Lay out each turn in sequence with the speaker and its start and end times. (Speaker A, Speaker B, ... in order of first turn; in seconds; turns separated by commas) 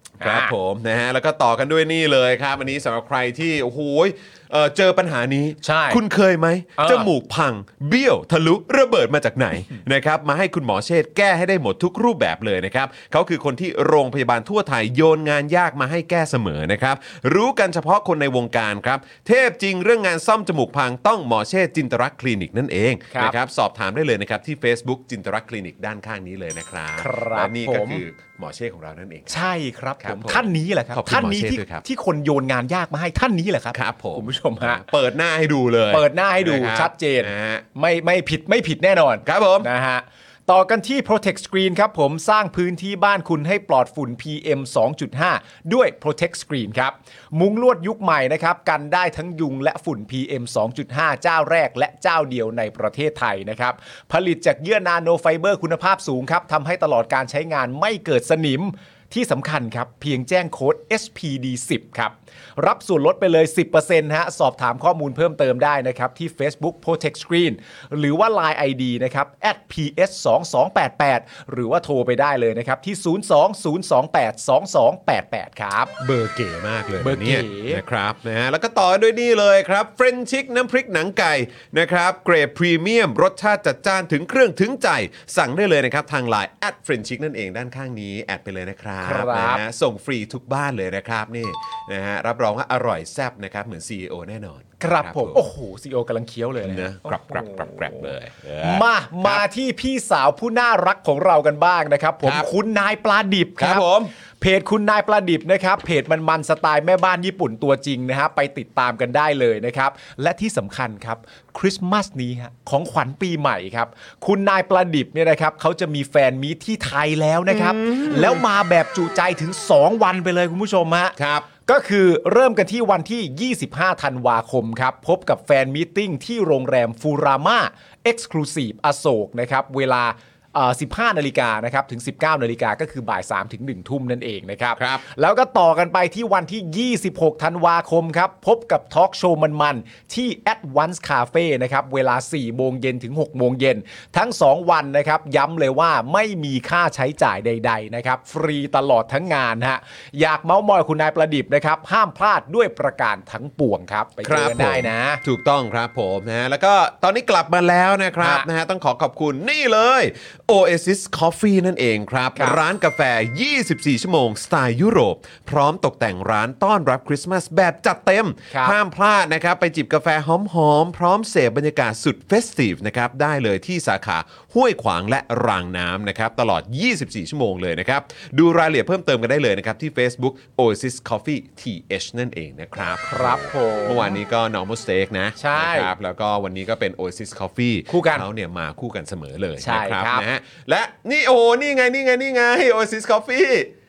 Speaker A: 0.2-0.5, Speaker B: 0.2-29.4, Speaker A: 5.6-6.0, Speaker A: 6.8-7.1, Speaker A: 27.0-28.0, Speaker A: 29.3-34.8, Speaker B: 30.0-31.8, Speaker B: 33.7-37.6, Speaker A: 35.9-76.0, Speaker B: 39.2-39.7, Speaker B: 76.0-95.4, Speaker A: 77.0-77.8, Speaker A: 89.0-89.6, Speaker A: 94.8-103.8, Speaker B: 96.6-99.4, Speaker B: 102.2-102.5, Speaker B: 103.6-104.1, Speaker A: 104.4-155.2, Speaker B: 117.5-118.4, Speaker B: 121.2-121.5, Speaker B: 134.8-135.0, Speaker B: 154.2-193.7, Speaker A: 158.2-158.5, Speaker A: 168.5-168.8, Speaker A: 183.1-184.2, Speaker A: 185.4-185.9, Speaker A: 187.9-188.3, Speaker A: 189.6-190.2